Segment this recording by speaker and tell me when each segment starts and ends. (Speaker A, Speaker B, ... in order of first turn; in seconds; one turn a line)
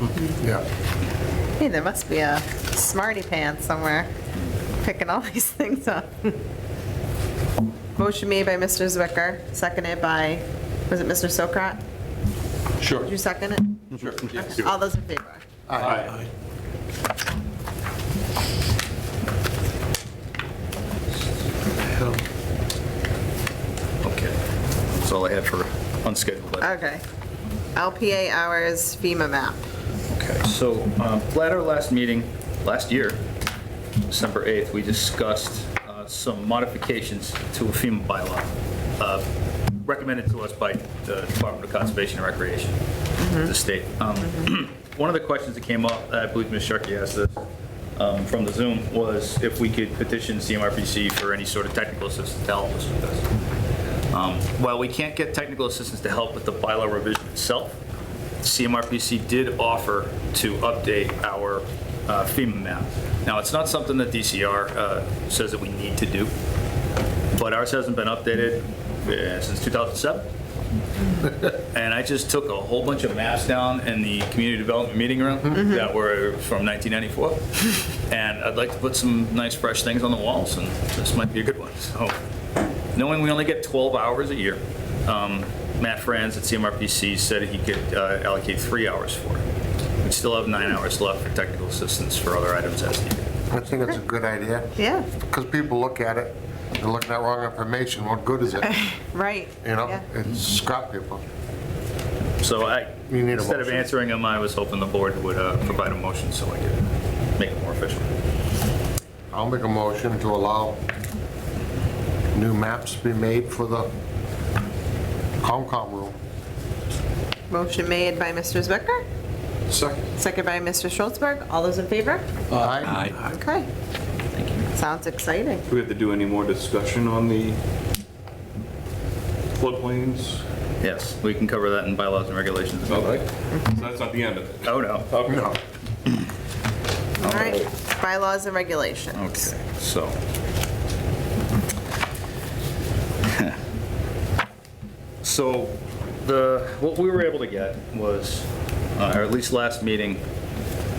Speaker A: 0.4-0.7
Speaker B: 1.6-4.1
Speaker B: 4.7-6.4
Speaker B: 8.0-11.8
Speaker B: 12.9-13.8
Speaker C: 13.9-14.7
Speaker B: 14.3-15.4
Speaker A: 15.7-16.1
Speaker C: 15.8-16.2
Speaker D: 24.0-24.4
Speaker D: 24.9-26.8
Speaker B: 26.6-27.0
Speaker B: 27.8-29.6
Speaker D: 30.1-33.2
Speaker D: 34.1-39.2
Speaker D: 39.8-42.8
Speaker B: 43.2-43.5
Speaker D: 43.3-47.4
Speaker D: 48.0-53.3
Speaker D: 54.1-57.8
Speaker D: 58.4-66.3
Speaker D: 67.3-70.3
Speaker D: 71.7-82.2
Speaker B: 75.5-75.9
Speaker D: 82.9-89.4
Speaker D: 90.0-93.3
Speaker A: 93.5-98.8
Speaker B: 94.8-95.1
Speaker B: 98.6-100.0
Speaker A: 99.6-101.2
Speaker D: 102.4-106.8
Speaker A: 103.1-103.9
Speaker D: 107.4-108.1
Speaker A: 109.3-110.8
Speaker A: 112.3-113.9
Speaker A: 115.4-116.2
Speaker B: 117.5-119.0
Speaker C: 119.7-120.0
Speaker B: 120.2-122.2
Speaker A: 122.5-123.1
Speaker C: 122.5-123.1
Speaker B: 123.3-123.7
Speaker B: 124.8-125.6
Speaker C: 125.7-127.6
Speaker C: 129.6-130.4
Speaker D: 130.8-133.2
Speaker C: 132.9-135.5
Speaker D: 134.6-135.1
Speaker A: 135.2-135.6
Speaker B: 137.2-139.5
Speaker C: 137.2-137.6
Speaker D: 139.1-140.2
Speaker D: 143.3-143.6
Speaker D: 145.2-150.2